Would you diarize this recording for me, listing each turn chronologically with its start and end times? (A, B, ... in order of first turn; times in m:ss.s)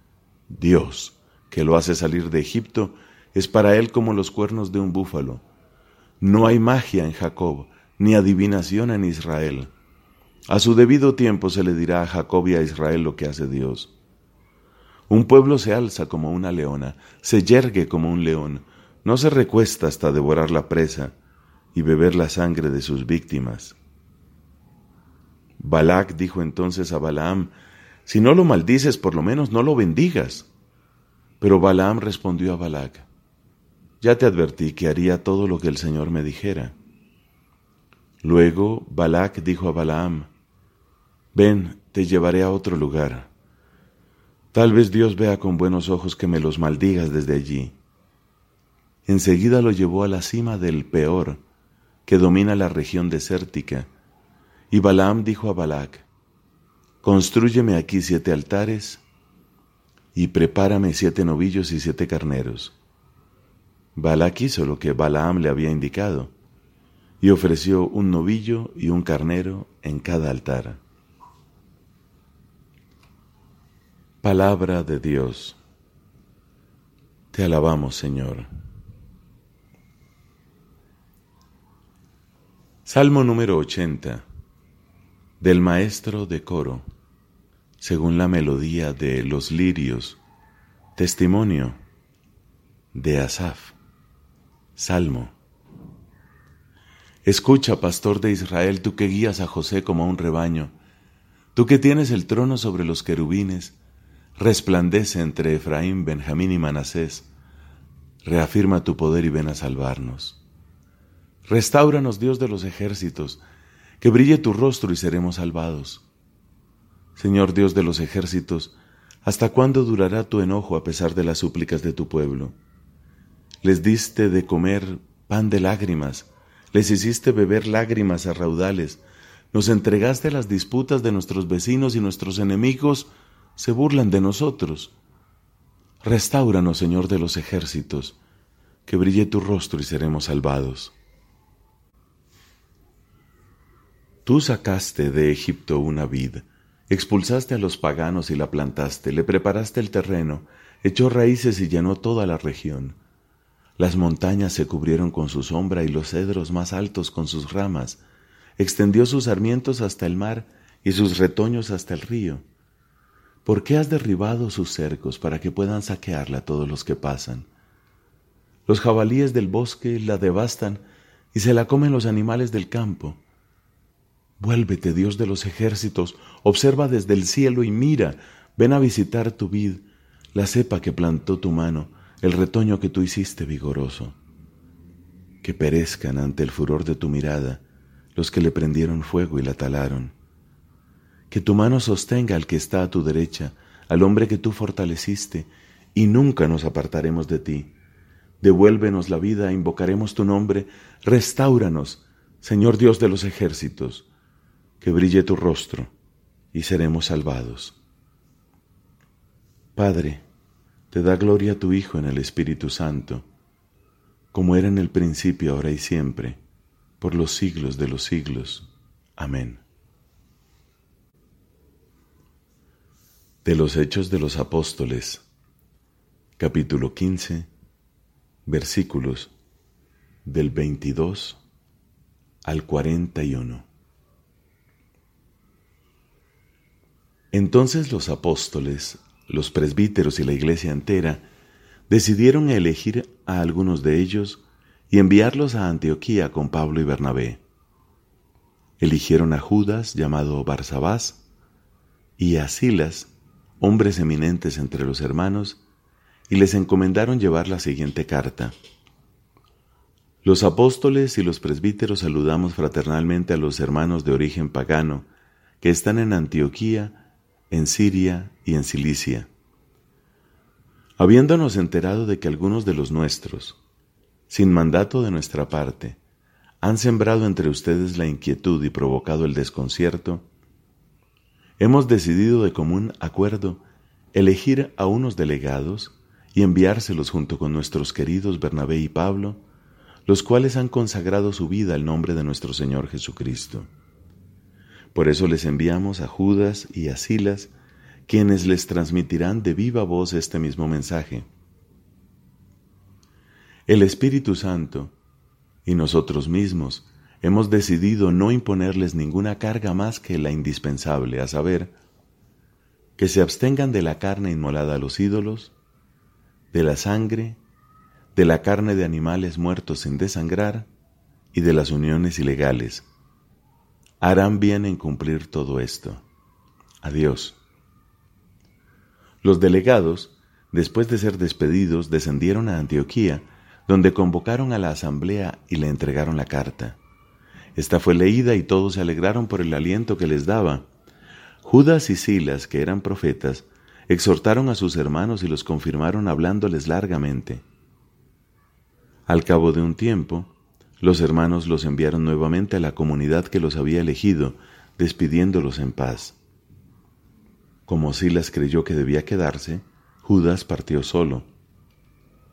0:00.5-0:05.4 A
0:06.2-0:09.7 A
0:10.5-0:13.9 A
0:15.1-0:21.1 A
0:21.7-0:23.8 A
0:25.6-0:27.5 A
0:28.0-0:30.5 A
0:31.4-0:33.1 A
0:34.0-0:36.8 A
0:38.2-0:40.3 A
0:41.3-0:43.3 A
0:44.5-0:47.8 A
0:49.1-0:51.4 A
0:52.1-0:53.9 A
0:54.7-0:56.1 A
0:57.0-0:59.0 A
1:00.1-1:02.8 A
1:04.0-1:06.3 A
1:07.2-1:10.8 A
1:14.2-1:15.6 A
1:17.3-1:18.5 A
1:22.8-1:24.2 A
1:25.4-1:26.9 A
1:27.8-1:30.2 A
1:31.0-1:31.8 A
1:32.9-1:33.8 A
1:34.8-1:35.4 A
1:37.2-1:40.7 A
1:41.5-1:43.8 A
1:44.4-1:47.3 A
1:48.2-1:50.4 A
1:51.5-1:53.4 A
1:54.0-1:56.0 A
1:57.2-2:02.6 A
2:03.6-2:09.0 A
2:09.5-2:15.0 A
2:16.0-2:18.2 A
2:18.9-2:21.0 A
2:24.2-2:33.0 A
2:33.8-2:38.0 A
2:38.6-2:42.4 A
2:43.4-2:47.5 A
2:48.7-2:50.8 A
2:51.3-2:53.2 A
2:54.4-3:04.2 A
3:05.4-3:07.6 A
3:08.2-3:10.2 A
3:11.3-3:17.7 A
3:18.4-3:24.1 A
3:24.8-3:25.9 A
3:26.5-3:27.8 A
3:29.8-3:30.2 A
3:30.9-3:33.2 A
3:34.3-3:36.4 A
3:37.0-3:39.6 A
3:43.4-3:45.2 A
3:46.4-3:47.5 A
3:48.5-3:49.3 A
3:50.2-3:51.4 A
3:52.4-3:53.7 A
3:57.3-4:01.2 A
4:01.9-4:07.4 A
4:08.8-4:11.2 A
4:12.2-4:15.6 A
4:16.3-4:18.6 A
4:20.2-4:25.1 A
4:25.6-4:29.3 A
4:31.0-4:33.6 A
4:34.3-4:36.0 A
4:36.6-4:40.2 A
4:41.6-4:43.6 A
4:44.1-4:49.4 A
4:50.1-4:53.7 A
4:54.9-4:57.5 A
4:58.1-5:01.2 A
5:03.7-5:04.9 A
5:05.6-5:11.7 A
5:13.0-5:15.5 A
5:16.5-5:17.4 A
5:18.2-5:20.7 A
5:21.3-5:22.9 A
5:24.0-5:26.0 A
5:26.8-5:27.4 A
5:29.2-5:36.8 A
5:37.6-5:40.7 A
5:41.4-5:47.4 A
5:49.1-5:56.2 A
5:57.7-6:01.3 A